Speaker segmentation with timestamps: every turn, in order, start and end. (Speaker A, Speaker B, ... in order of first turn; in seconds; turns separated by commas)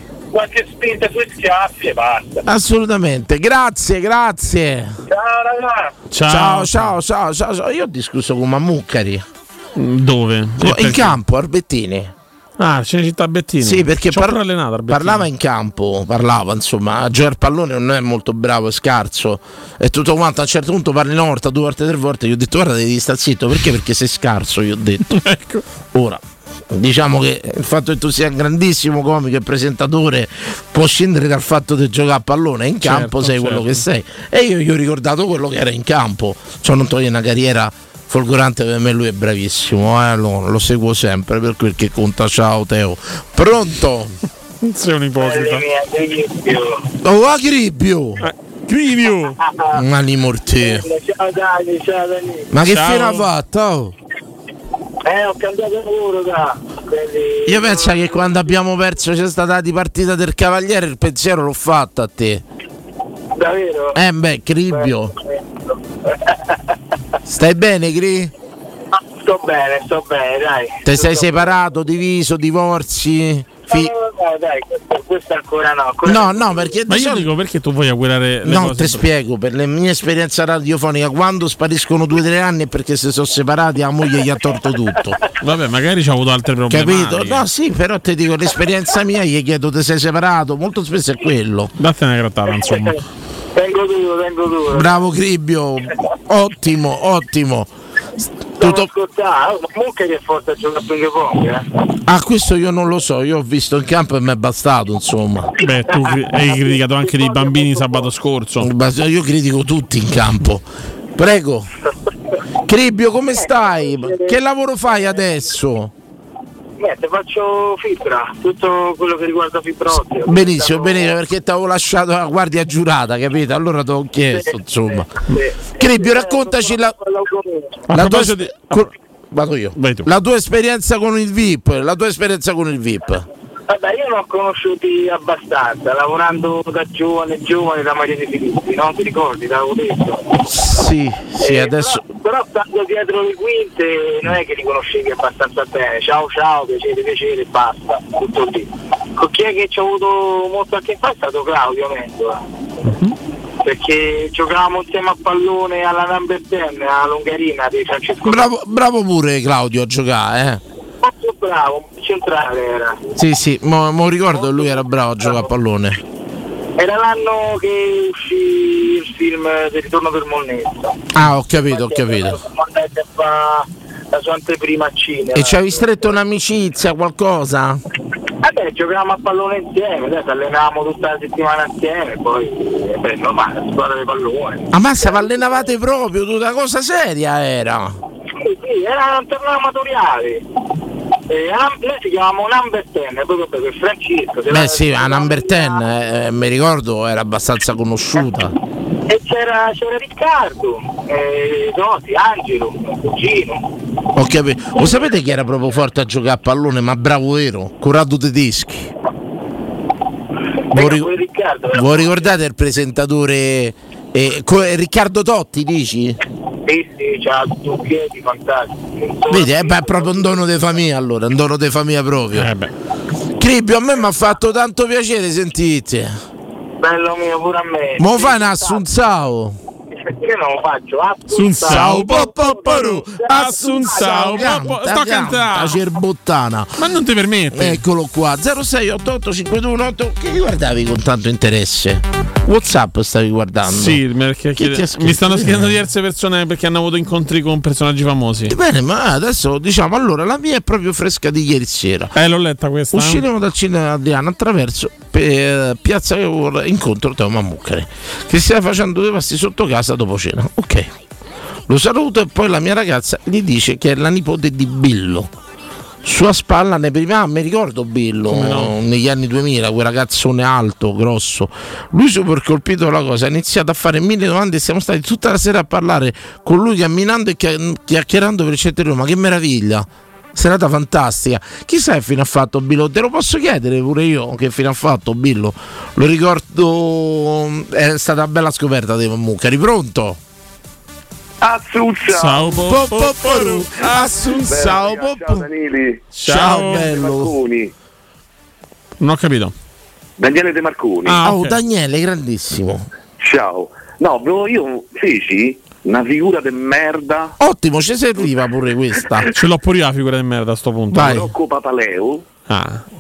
Speaker A: 0.3-2.4, Speaker B: 2.5-5.0, Speaker A: 5.1-6.0, Speaker C: 6.1-6.9, Speaker B: 6.3-9.2, Speaker C: 9.8-11.2, Speaker B: 10.6-12.1, Speaker C: 12.6-15.3, Speaker B: 13.6-25.1, Speaker C: 25.1-25.6, Speaker B: 25.9-44.1, Speaker C: 32.8-33.8, Speaker C: 44.6-45.7, Speaker D: 45.2-46.9, Speaker B: 47.0-48.2, Speaker C: 48.2-49.4, Speaker D: 49.4-49.8, Speaker B: 49.7-50.8, Speaker D: 50.5-52.5, Speaker B: 52.5-53.9, Speaker C: 52.7-53.3, Speaker D: 55.0-58.5, Speaker B: 57.5-62.4, Speaker D: 63.4-64.0, Speaker B: 64.0-65.1, Speaker D: 64.7-66.6, Speaker B: 67.3-68.3, Speaker D: 69.1-71.6, Speaker B: 70.8-73.9, Speaker D: 73.7-76.7, Speaker B: 76.0-77.3, Speaker C: 76.9-79.0, Speaker B: 78.4-85.2, Speaker C: 85.4-87.4, Speaker B: 86.7-91.7, Speaker C: 91.8-93.0, Speaker D: 92.5-93.0, Speaker D: 93.5-95.0, Speaker B: 94.7-97.7, Speaker B: 98.6-98.9, Speaker D: 98.6-101.7, Speaker B: 102.1-105.5, Speaker C: 105.6-108.7, Speaker D: 105.9-108.1, Speaker B: 108.6-110.7, Speaker B: 111.2-111.7, Speaker B: 112.7-115.9, Speaker D: 113.3-114.4, Speaker D: 116.8-121.1, Speaker B: 120.2-125.1, Speaker D: 124.3-127.8, Speaker B: 125.8-127.0, Speaker C: 127.9-128.9, Speaker B: 127.9-133.3, Speaker C: 129.8-130.1, Speaker D: 133.7-140.4, Speaker B: 140.5-142.0, Speaker D: 141.4-152.4, Speaker C: 152.9-153.1, Speaker D: 153.6-158.5, Speaker B: 158.2-160.6, Speaker D: 161.0-163.0, Speaker B: 163.2-166.0, Speaker D: 164.3-165.5, Speaker D: 166.8-171.0, Speaker B: 171.1-172.4, Speaker D: 171.6-176.2, Speaker B: 175.3-177.8, Speaker D: 178.4-185.7, Speaker B: 184.7-188.0, Speaker D: 188.4-190.4, Speaker D: 191.3-195.9, Speaker B: 194.5-198.5, Speaker D: 199.1-203.6, Speaker B: 204.2-208.9, Speaker D: 204.8-205.1, Speaker D: 210.7-212.3, Speaker B: 210.7-211.1, Speaker B: 211.7-216.2, Speaker D: 216.7-220.4, Speaker B: 219.3-222.5, Speaker C: 222.3-222.7, Speaker B: 223.4-226.2, Speaker D: 226.8-228.8, Speaker B: 228.0-229.6, Speaker D: 230.1-234.5, Speaker C: 231.3-235.8, Speaker B: 231.6-236.8, Speaker C: 236.8-237.8, Speaker B: 237.5-244.0, Speaker C: 243.7-248.6, Speaker B: 244.6-245.8, Speaker B: 248.5-252.1, Speaker C: 252.2-253.2, Speaker B: 252.9-260.9, Speaker B: 261.7-265.3, Speaker B: 266.0-290.2, Speaker C: 268.3-268.7, Speaker E: 291.4-292.5, Speaker C: 292.1-294.7, Speaker B: 292.6-295.5, Speaker E: 294.5-297.7, Speaker C: 296.2-296.9, Speaker B: 296.2-297.3, Speaker C: 299.0-299.5, Speaker E: 300.2-301.2, Speaker C: 301.1-301.6, Speaker B: 301.2-302.9, Speaker E: 303.2-307.4, Speaker B: 307.4-309.3, Speaker C: 309.3-311.3, Speaker B: 310.9-311.3, Speaker E: 310.9-312.3, Speaker C: 312.5-312.8